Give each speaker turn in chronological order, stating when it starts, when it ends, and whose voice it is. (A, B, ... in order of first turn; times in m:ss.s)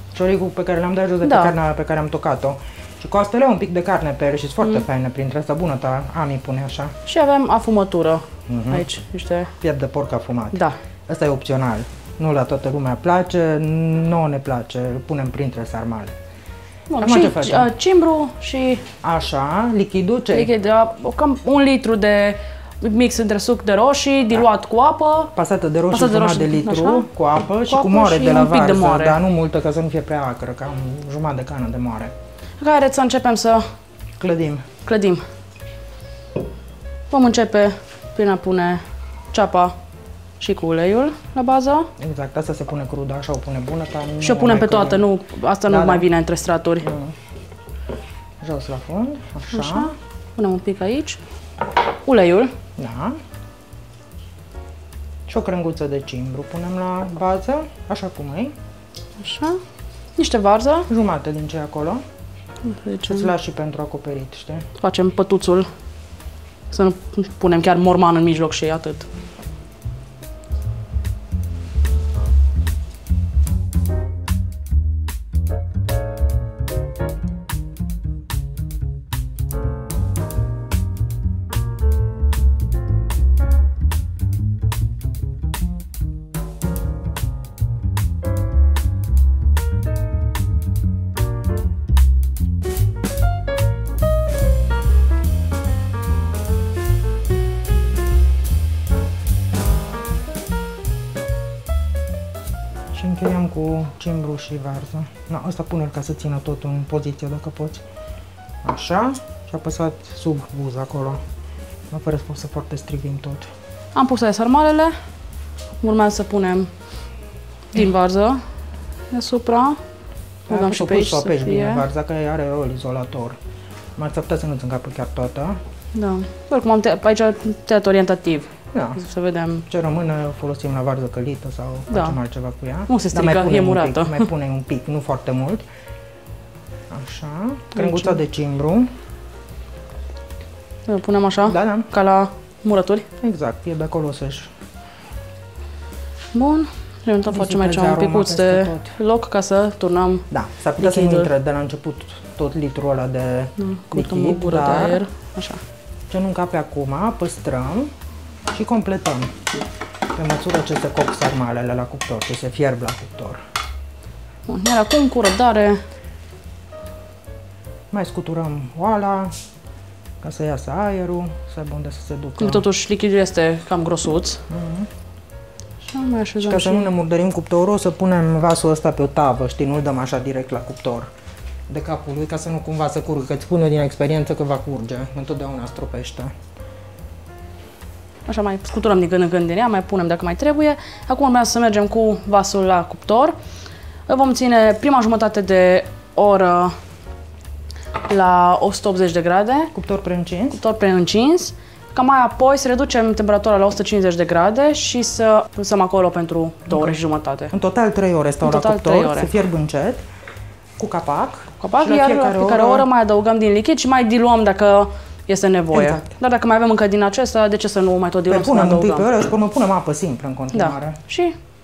0:00.1-0:07.0 A
0:01.2-0:01.5 B
0:07.0-0:09.5 B
0:08.5-0:08.9 A
0:09.6-0:16.2 A
0:10.5-0:10.8 B
0:16.9-0:18.9 B
0:17.0-0:17.7 A
0:19.0-0:20.5 A
0:20.3-0:25.3 B
0:25.3-0:32.1 A
0:25.9-0:27.1 B
0:27.7-0:29.2 B
0:32.6-0:33.7 B
0:34.2-0:34.6 A
0:34.8-0:35.2 B
0:37.1-0:39.8 B
0:40.4-0:41.9 B
0:42.0-0:45.1 A
0:44.2-0:46.9 B
0:45.6-0:46.1 A
0:46.8-0:47.2 A
0:48.4-0:49.9 A
0:49.5-0:51.2 B
0:52.0-0:52.5 B
0:52.8-0:53.2 A
0:55.3-0:58.5 A
0:59.2-0:59.6 B
1:00.2-1:00.9 B
1:00.9-1:02.0 A
1:02.6-1:03.3 B
1:03.0-1:04.7 A
1:04.8-1:05.7 B
1:06.7-1:09.0 B
1:42.9-1:47.8 A
1:48.6-1:51.2 A
1:51.9-1:53.5 A
1:53.9-1:55.0 B
1:55.8-1:56.7 B
1:57.7-1:58.4 B
1:59.1-1:59.8 B
2:00.5-2:01.8 B
2:00.5-2:03.4 A
2:04.0-2:05.6 A
2:05.9-2:09.7 B
2:08.7-2:09.0 A
2:09.7-2:15.6 A
2:11.9-2:12.2 B
2:12.9-2:14.3 B
2:16.9-2:18.9 A
2:17.7-2:18.2 B
2:20.9-2:23.1 B
2:21.4-2:21.9 A
2:23.2-2:24.5 A
2:26.3-2:31.3 B
2:27.3-2:28.9 A
2:30.3-2:35.0 A
2:33.6-2:35.6 B
2:36.1-2:37.9 A
2:38.5-2:39.4 A
2:40.1-2:43.4 A
2:44.5-2:45.8 B
2:47.9-2:49.4 A
2:50.2-2:52.6 A
2:52.4-2:54.4 B
2:54.5-2:54.9 A
2:55.8-2:56.9 B
2:56.4-3:01.1 A
3:01.7-3:06.3 A
3:08.2-3:13.4 B
3:14.1-3:16.8 B
3:18.0-3:19.7 B
3:19.7-3:20.6 A
3:20.5-3:27.5 B
3:26.7-3:27.0 A
3:27.5-3:30.0 A
3:28.4-3:29.3 B
3:30.8-3:32.9 A
3:31.6-3:39.1 B
3:35.7-3:36.0 A
3:38.3-3:41.0 A
3:40.5-3:41.4 B